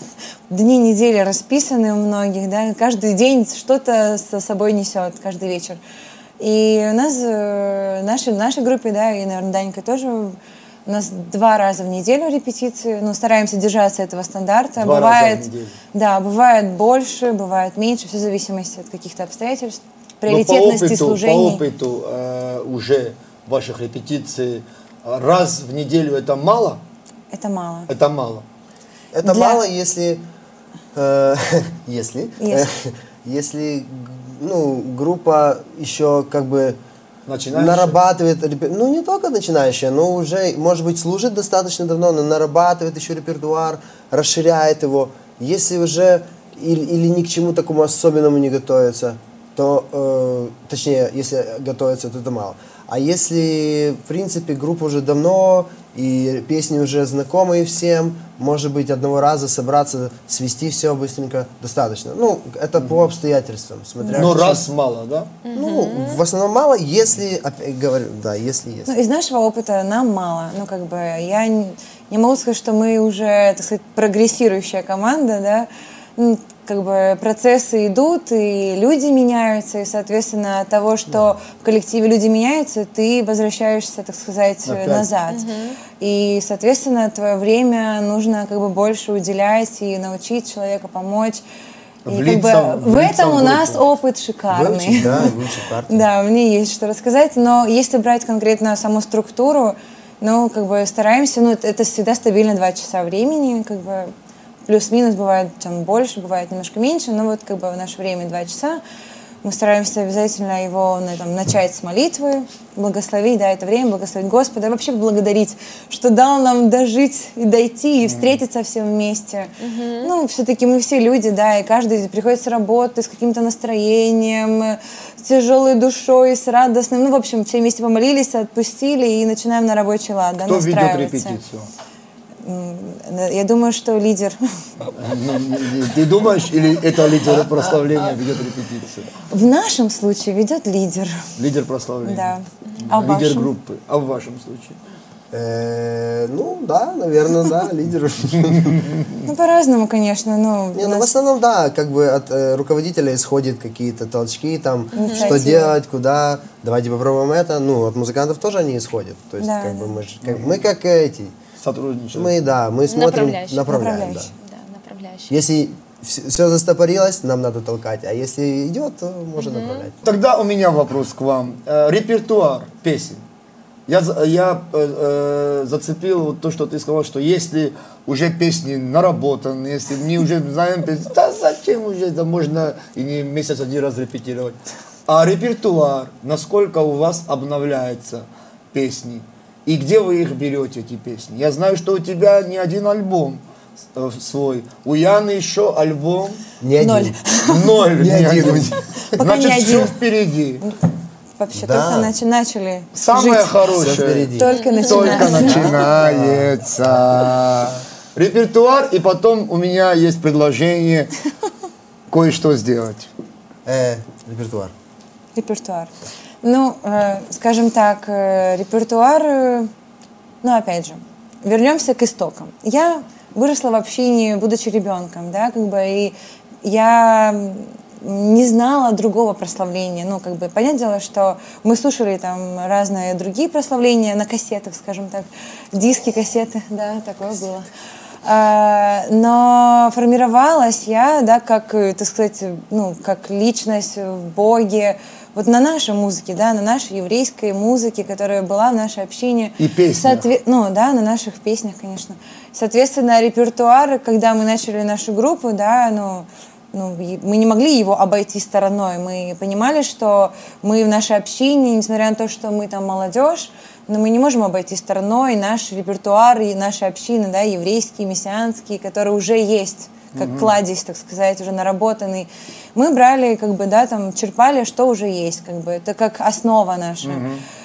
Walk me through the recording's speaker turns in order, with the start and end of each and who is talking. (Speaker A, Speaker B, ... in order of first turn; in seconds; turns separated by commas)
Speaker A: 0.5-5.8, Speaker A: 6.4-21.6, Speaker B: 14.8-15.7, Speaker B: 20.2-26.8, Speaker A: 27.3-27.9, Speaker B: 27.9-28.4, Speaker C: 29.1-30.2, Speaker A: 29.2-29.6, Speaker C: 30.9-36.8, Speaker A: 32.4-32.7, Speaker B: 37.3-38.0, Speaker C: 37.5-64.6, Speaker B: 62.8-63.1, Speaker A: 64.0-64.4, Speaker B: 64.1-65.3, Speaker D: 65.4-66.2, Speaker C: 65.5-68.9, Speaker A: 68.9-85.5, Speaker B: 84.6-85.1, Speaker D: 85.3-85.8, Speaker A: 86.0-91.4, Speaker B: 92.0-93.8, Speaker A: 92.1-95.3, Speaker C: 94.5-96.0, Speaker A: 95.9-104.1, Speaker A: 104.7-108.8, Speaker A: 109.4-131.4, Speaker B: 118.0-118.4, Speaker D: 119.6-120.1, Speaker B: 130.4-131.7, Speaker A: 132.4-134.4, Speaker B: 134.9-139.1, Speaker A: 139.3-141.3, Speaker B: 141.4-142.3, Speaker A: 142.0-143.5, Speaker B: 142.8-144.8, Speaker C: 145.3-149.0, Speaker B: 148.7-149.1, Speaker A: 149.2-151.1, Speaker C: 150.8-161.3, Speaker D: 154.9-155.5, Speaker A: 154.9-155.7, Speaker A: 159.4-159.9, Speaker B: 160.2-160.6, Speaker B: 161.6-162.3, Speaker C: 162.1-164.3, Speaker D: 162.9-163.7, Speaker A: 163.7-164.3, Speaker D: 164.4-165.3, Speaker C: 165.3-170.0, Speaker D: 169.4-169.9, Speaker B: 170.0-173.2, Speaker B: 173.9-193.4, Speaker B: 193.9-196.4, Speaker C: 196.6-197.2, Speaker A: 196.8-197.8, Speaker B: 197.5-200.6, Speaker C: 197.9-198.8, Speaker A: 199.1-199.9, Speaker A: 201.4-203.5, Speaker C: 201.5-202.1, Speaker B: 202.9-211.1, Speaker C: 203.7-207.3, Speaker A: 204.4-205.8, Speaker D: 204.5-205.4, Speaker B: 212.1-213.1, Speaker C: 213.7-214.7, Speaker A: 215.3-215.9, Speaker A: 216.4-219.7, Speaker A: 220.4-237.7, Speaker A: 238.2-277.2, Speaker B: 249.6-250.3, Speaker B: 270.1-270.5, Speaker B: 277.0-277.4